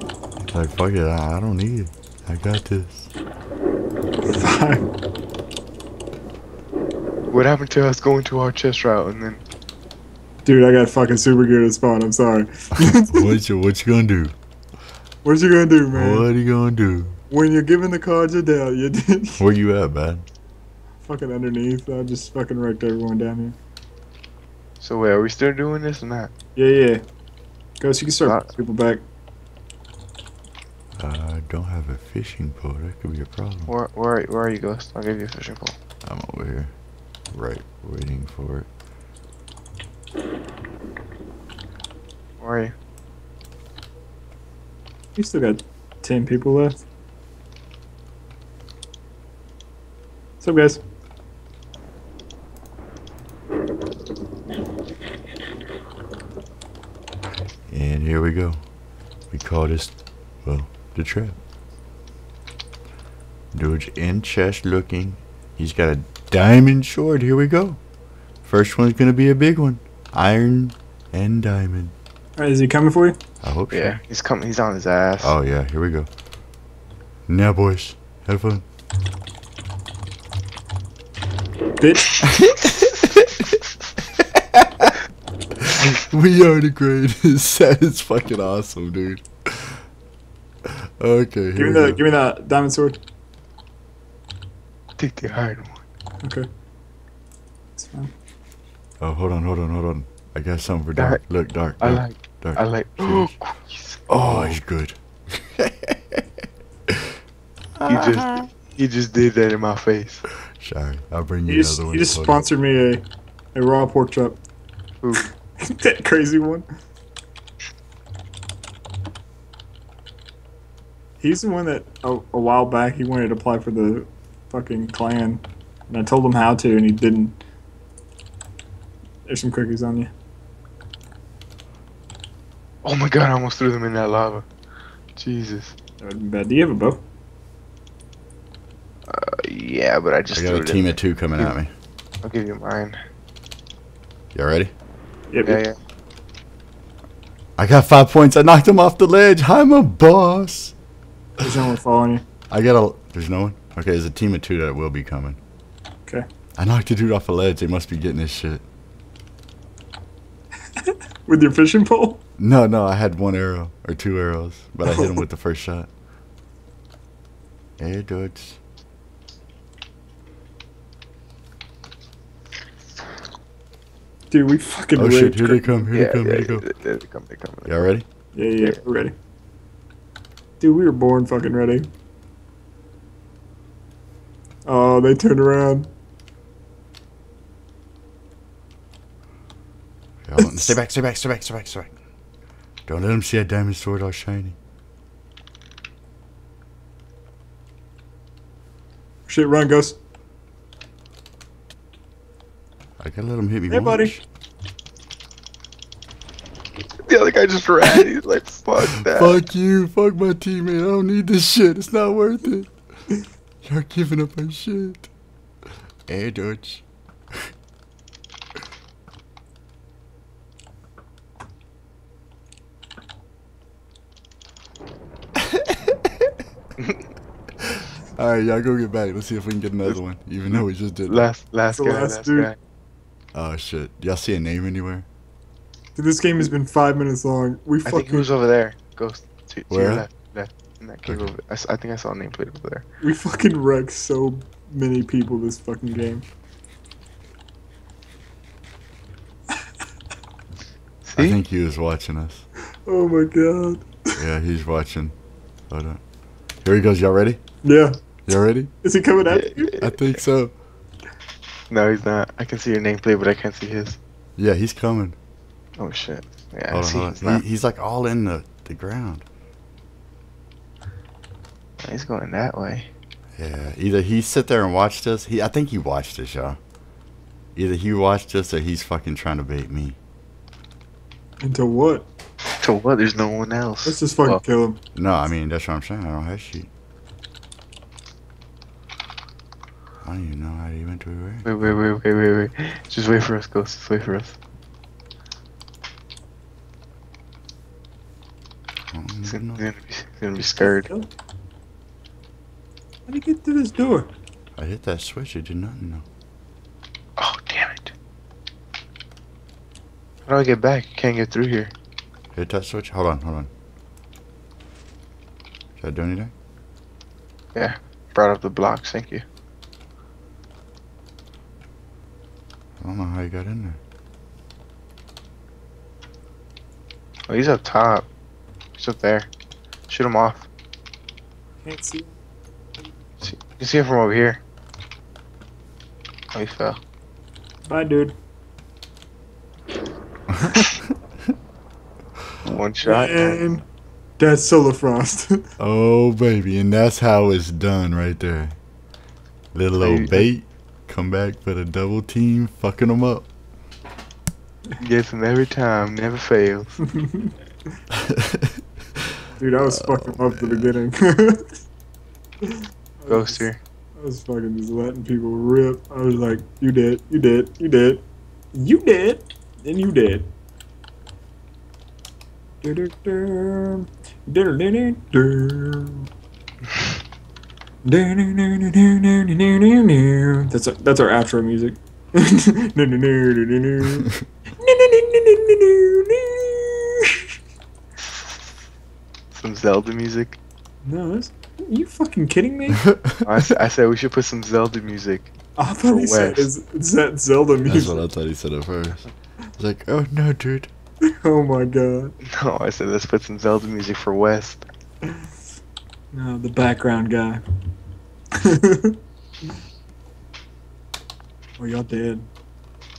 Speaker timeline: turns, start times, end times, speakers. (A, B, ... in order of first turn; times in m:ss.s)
0:00.4-0:03.1 A
0:04.3-0:04.9 B
0:07.3-0:09.4 C
0:10.4-0:13.3 B
0:12.8-0:14.4 A
0:15.2-0:16.3 B
0:15.9-0:17.2 A
0:17.3-0:19.4 B
0:19.4-0:20.3 A
0:21.0-0:23.6 B
0:24.8-0:26.3 C
0:26.6-0:27.0 B
0:27.8-0:29.0 B
0:28.2-0:28.5 C
0:31.0-0:33.7 A
0:33.7-0:35.8 C
0:36.1-0:36.7 A
0:37.3-0:38.7 A
0:42.4-0:42.7 C
0:45.2-0:46.8 B
0:50.4-0:50.8 B
0:57.7-0:58.6 A
0:59.3-1:01.4 A
1:03.5-1:07.8 A
1:08.4-1:11.9 A
1:12.4-1:13.2 B
1:13.4-1:14.0 A
1:13.7-1:15.4 C
1:15.2-1:16.1 A
1:17.3-1:18.6 A
1:21.8-1:22.4 B
1:24.4-1:24.9 A
1:25.6-1:29.8 A
1:30.7-1:32.0 A
1:31.6-1:33.0 B
1:35.0-1:35.8 C
1:37.8-1:38.1 B
1:39.0-1:43.4 A
1:41.0-1:41.2 C
1:41.8-1:44.6 C
1:44.1-1:46.0 A
1:47.8-1:48.5 A
1:47.9-1:50.2 C
1:50.6-1:52.4 A
1:51.5-1:53.0 B
1:53.5-1:54.4 B
1:55.6-1:56.7 B
2:01.2-2:07.4 B
2:09.3-2:10.1 B
2:12.8-2:14.5 C
2:15.2-2:15.8 C
2:16.0-2:17.0 B
2:19.1-2:21.5 C
2:20.4-2:21.7 A
2:22.2-2:23.0 C
2:24.3-2:24.7 A
2:25.3-2:25.6 B
2:25.4-2:25.8 C
2:27.6-2:30.7 A
2:31.4-2:32.2 B
2:32.5-2:35.4 A
2:36.6-2:38.6 A
2:40.8-2:42.2 B
2:42.4-2:45.9 A
2:44.8-2:45.2 B
2:47.8-2:48.6 A
2:54.3-2:55.8 B
2:55.0-2:56.7 A
2:55.9-2:57.9 C
2:57.6-2:58.1 A
2:58.4-2:59.1 B
3:00.6-3:01.9 B
3:04.6-3:05.9 B
3:10.2-3:11.9 A
3:10.4-3:10.8 B
3:12.9-3:14.6 A
3:19.3-3:20.0 B
3:23.0-3:24.2 A
3:23.7-3:24.2 B
3:27.1-3:29.4 C
3:28.8-3:32.7 A
3:33.6-3:35.1 A
3:36.1-3:36.8 A
3:47.6-3:51.3 A
3:50.5-3:52.6 C
3:51.7-3:52.5 B
3:53.3-3:55.1 A
3:56.0-3:58.3 B
3:57.9-4:02.8 C
3:59.7-4:00.1 A
4:01.1-4:01.3 A
4:03.0-4:06.2 B
4:11.0-4:11.4 C
4:11.2-4:12.4 A
4:12.9-4:14.2 B
4:14.2-4:15.2 A
4:15.7-4:16.0 A
4:16.6-4:17.4 A
4:17.6-4:17.9 B
4:18.3-4:18.7 A
4:18.8-4:19.8 B
4:19.3-4:20.2 C
4:19.7-4:20.6 A
4:21.7-4:24.0 C
4:24.4-4:25.2 A
4:25.8-4:27.4 C
4:26.7-4:29.2 A
4:31.8-4:32.9 C
4:33.4-4:36.6 A
4:37.6-4:40.0 A
4:41.4-4:42.1 B
4:42.6-4:44.4 C
4:43.8-4:44.8 B
4:45.0-4:46.7 A
4:50.0-4:51.8 A
4:51.5-4:54.4 C
4:58.9-4:59.6 A
4:59.3-5:00.9 C
5:00.6-5:01.1 B
5:03.1-5:04.1 B
5:04.6-5:06.0 A
5:07.2-5:07.9 C
5:10.3-5:11.7 C
5:12.3-5:13.5 A
5:15.8-5:16.3 A
5:17.6-5:19.2 C
5:22.8-5:23.8 A
5:27.3-5:28.1 C
5:28.8-5:29.3 C
5:29.9-5:30.5 C
5:31.6-5:32.1 B
5:33.2-5:34.4 C
5:36.3-5:36.8 C
5:37.6-5:38.2 B
5:42.4-5:43.4 C
5:42.8-5:43.6 B
5:44.2-5:45.4 B
5:45.6-5:48.6 A
5:49.5-5:53.3 A
5:49.8-5:50.3 C
5:54.8-5:56.8 C
5:56.9-5:57.3 B
5:58.1-5:58.5 A
5:59.3-6:01.5 B
5:59.7-6:00.8 A
6:02.4-6:03.4 B
6:03.1-6:03.6 C
6:04.0-6:08.0 B
6:08.5-6:10.3 B
6:12.6-6:16.1 B
6:17.8-6:27.2 B
6:29.3-6:30.4 C
6:30.8-6:32.8 B
6:33.0-6:33.2 A
6:33.2-6:36.5 C
6:35.6-6:38.0 B
6:37.7-6:40.7 A
6:41.2-6:42.1 B
6:42.3-6:44.6 C
6:46.1-6:47.4 B
6:48.5-6:49.0 B
6:51.6-6:52.3 B